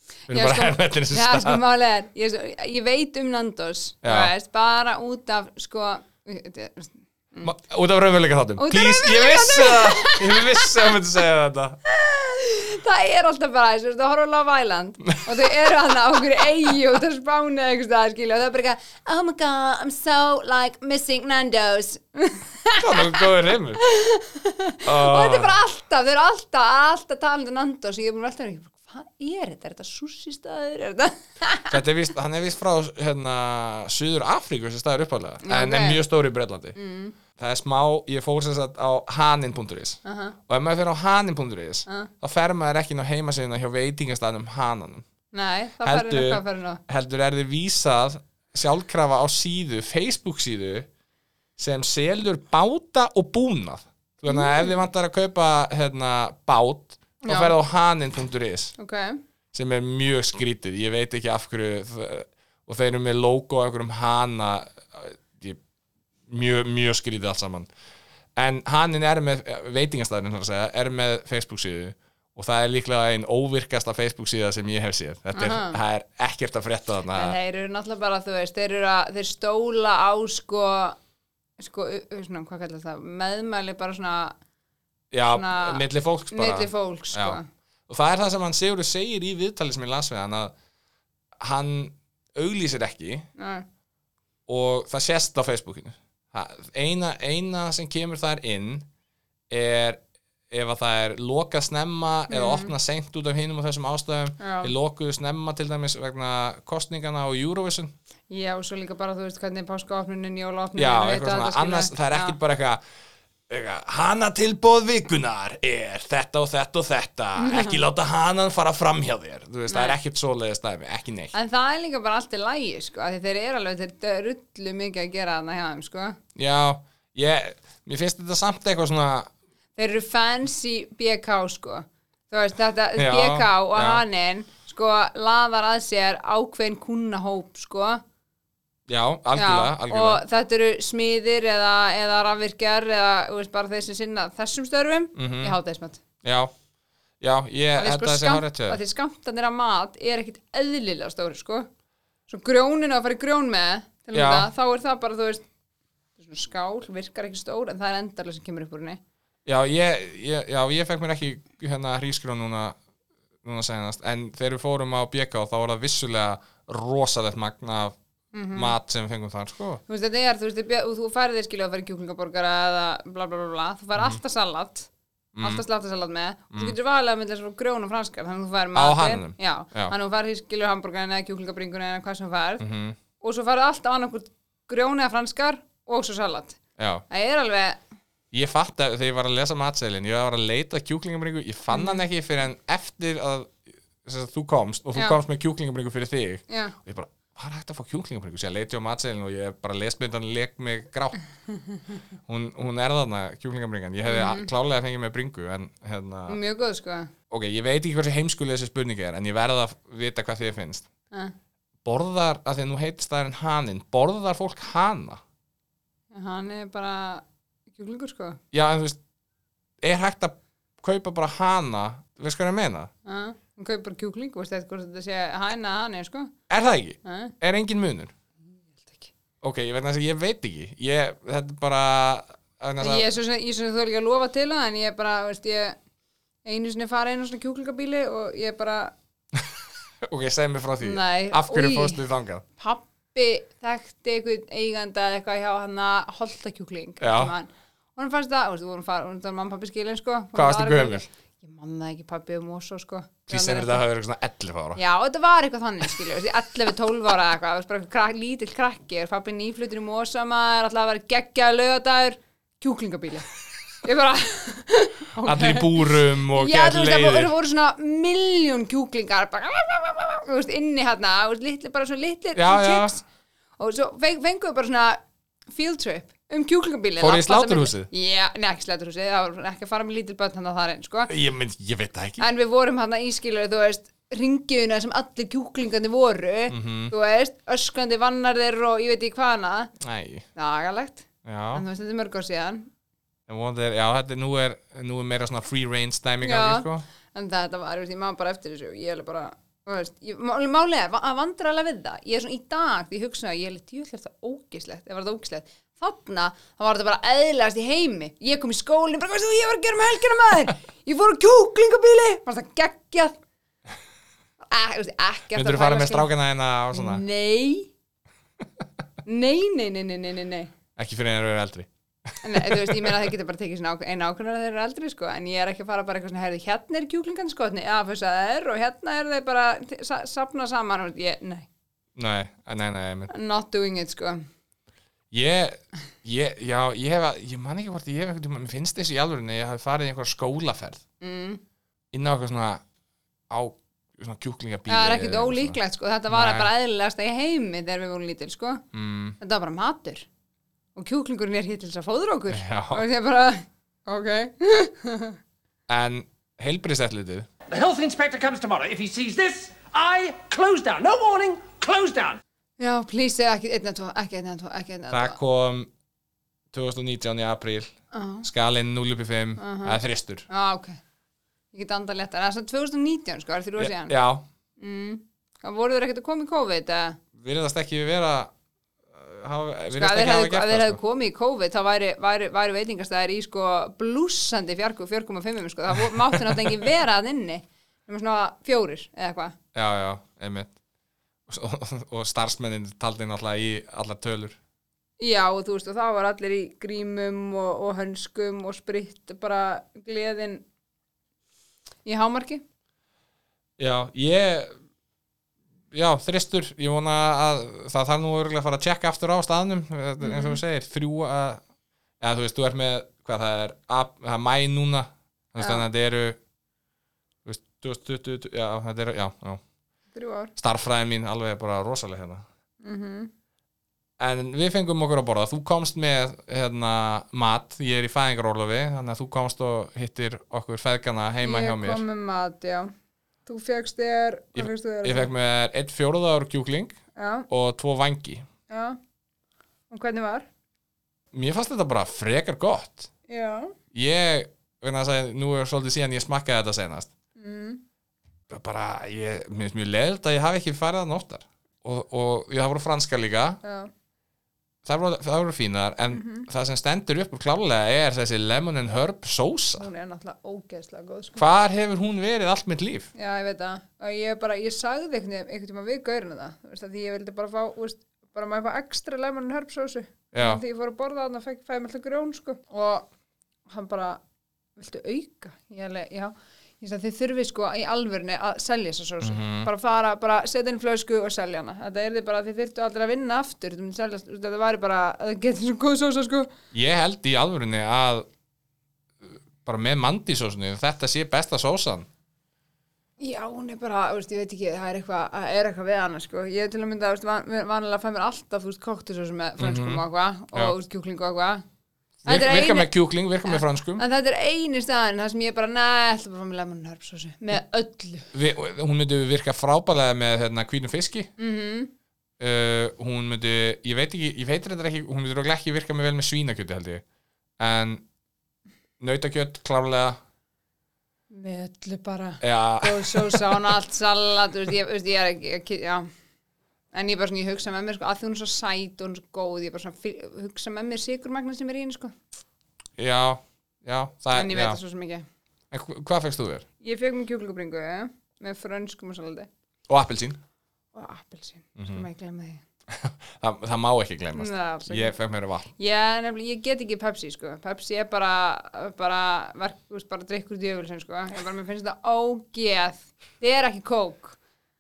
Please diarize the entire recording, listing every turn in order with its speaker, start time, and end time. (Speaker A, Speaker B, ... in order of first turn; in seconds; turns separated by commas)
Speaker A: 0.3-1.6, Speaker B: 0.3-7.5, Speaker A: 4.0-4.3, Speaker A: 7.4-11.8, Speaker B: 8.6-11.0, Speaker B: 11.9-31.8, Speaker A: 22.8-23.8, Speaker A: 24.9-25.6, Speaker A: 31.7-36.8, Speaker B: 35.4-36.0, Speaker B: 36.8-37.2, Speaker A: 37.4-45.0, Speaker B: 40.0-40.4, Speaker B: 45.3-46.8, Speaker A: 45.8-50.9, Speaker A: 51.6-58.8, Speaker B: 54.3-54.8, Speaker B: 57.2-57.6, Speaker B: 58.8-59.2, Speaker A: 59.5-65.6, Speaker A: 66.3-67.7, Speaker A: 68.4-77.4, Speaker B: 75.3-75.8, Speaker B: 77.1-81.0, Speaker B: 81.6-84.3, Speaker A: 85.1-90.5, Speaker B: 85.3-87.5, Speaker A: 91.4-93.3, Speaker B: 93.4-93.7, Speaker A: 94.5-98.9, Speaker A: 99.5-107.9, Speaker B: 102.3-102.8, Speaker B: 104.4-104.7, Speaker B: 108.3-112.4, Speaker A: 110.8-112.8, Speaker A: 113.5-121.3, Speaker B: 117.4-117.8, Speaker B: 119.7-120.0, Speaker B: 121.3-126.2, Speaker A: 126.4-129.3, Speaker B: 129.8-138.0, Speaker A: 133.0-134.0, Speaker A: 138.9-140.2, Speaker B: 139.3-146.0, Speaker A: 145.2-145.6, Speaker A: 146.2-146.5, Speaker A: 147.2-148.8, Speaker B: 147.8-151.7, Speaker B: 152.3-155.4, Speaker A: 154.1-154.5, Speaker B: 156.2-159.0, Speaker A: 159.5-162.8, Speaker A: 163.4-167.9, Speaker B: 168.3-168.8, Speaker A: 168.5-169.8, Speaker B: 169.9-174.9, Speaker A: 175.3-175.6, Speaker B: 175.4-182.7, Speaker A: 178.8-179.9, Speaker A: 182.6-183.0, Speaker B: 183.2-186.6, Speaker A: 186.8-187.0, Speaker B: 187.1-187.8, Speaker A: 188.3-201.2, Speaker B: 191.7-192.0, Speaker B: 196.5-196.8, Speaker A: 202.3-206.4, Speaker B: 204.1-204.5, Speaker B: 206.3-207.1, Speaker A: 207.3-210.9, Speaker A: 211.8-215.2, Speaker B: 216.1-218.4, Speaker A: 218.5-219.0, Speaker A: 219.8-222.9, Speaker B: 223.1-226.3, Speaker A: 226.5-228.1, Speaker B: 227.0-227.3, Speaker B: 228.6-229.1, Speaker A: 229.4-233.1, Speaker B: 232.8-235.8, Speaker B: 236.4-238.9, Speaker A: 240.0-242.4, Speaker B: 240.8-242.0, Speaker B: 242.6-253.8, Speaker A: 247.0-247.3, Speaker A: 250.3-251.1, Speaker A: 253.3-254.8, Speaker B: 254.8-263.3, Speaker B: 263.8-273.0, Speaker A: 265.2-267.3, Speaker A: 272.4-273.0, Speaker B: 273.6-275.0, Speaker B: 275.5-281.1, Speaker A: 277.0-277.9, Speaker A: 281.1-282.2, Speaker B: 282.2-289.7, Speaker A: 286.5-286.9, Speaker A: 289.8-290.3, Speaker B: 290.4-292.7, Speaker A: 291.2-291.6, Speaker A: 293.3-296.9, Speaker B: 296.2-313.2, Speaker B: 314.4-316.1, Speaker A: 315.3-317.0, Speaker B: 316.7-317.7, Speaker B: 319.1-320.5, Speaker A: 320.8-323.0, Speaker B: 322.2-331.5, Speaker A: 332.0-333.1, Speaker B: 333.1-334.2, Speaker A: 335.1-340.8, Speaker B: 341.0-341.4, Speaker A: 341.9-342.6, Speaker A: 343.3-345.6, Speaker B: 344.7-348.6, Speaker A: 346.1-346.5, Speaker A: 348.7-349.2, Speaker B: 349.2-350.1, Speaker B: 350.8-355.2, Speaker A: 352.3-352.8, Speaker A: 355.7-357.3, Speaker C: 357.5-362.2, Speaker B: 362.6-365.2, Speaker A: 364.9-365.7, Speaker A: 366.5-367.7, Speaker B: 367.9-368.3, Speaker A: 368.2-370.3, Speaker B: 369.4-370.8, Speaker B: 371.5-374.0, Speaker A: 373.6-374.2, Speaker B: 374.6-377.0, Speaker A: 377.2-378.3, Speaker A: 378.9-380.8, Speaker B: 379.7-389.4, Speaker A: 386.2-386.5, Speaker A: 389.5-390.6, Speaker A: 391.3-394.4, Speaker B: 395.0-400.4, Speaker B: 401.9-402.4, Speaker A: 403.6-404.5, Speaker A: 405.7-411.4, Speaker B: 410.0-410.4, Speaker A: 412.0-416.2, Speaker B: 415.4-415.7, Speaker A: 417.2-419.4, Speaker B: 419.9-420.3, Speaker A: 420.4-422.2, Speaker B: 422.6-423.1, Speaker A: 424.0-431.8, Speaker B: 431.2-432.7, Speaker B: 433.2-435.1, Speaker A: 434.4-436.8, Speaker B: 437.0-437.3, Speaker A: 437.3-438.2, Speaker B: 438.5-438.8, Speaker B: 439.7-440.3, Speaker A: 441.1-442.9, Speaker B: 443.1-443.5, Speaker A: 443.7-446.9, Speaker B: 447.2-447.6, Speaker A: 448.3-453.4, Speaker B: 453.4-453.7, Speaker A: 454.6-459.7, Speaker B: 455.9-456.3, Speaker B: 459.6-461.3, Speaker A: 461.2-462.9, Speaker B: 462.9-472.9, Speaker A: 470.1-470.4, Speaker B: 473.5-474.0, Speaker B: 474.6-486.3, Speaker A: 479.0-479.5, Speaker A: 486.5-488.1, Speaker A: 489.0-491.9, Speaker B: 493.0-501.4, Speaker A: 499.4-500.6, Speaker B: 502.0-502.7, Speaker A: 502.1-503.8, Speaker B: 503.2-508.1, Speaker A: 508.1-511.1, Speaker B: 511.2-511.7, Speaker A: 512.2-516.8, Speaker A: 517.4-517.8, Speaker A: 518.8-520.0, Speaker B: 521.1-525.9, Speaker A: 522.2-523.4, Speaker B: 526.7-531.9, Speaker A: 532.8-534.6, Speaker B: 534.1-535.0, Speaker A: 535.5-536.5, Speaker B: 536.6-539.3, Speaker A: 539.7-540.2, Speaker B: 540.7-542.4, Speaker A: 541.6-541.9, Speaker A: 542.7-545.5, Speaker B: 544.1-545.0, Speaker B: 545.6-554.2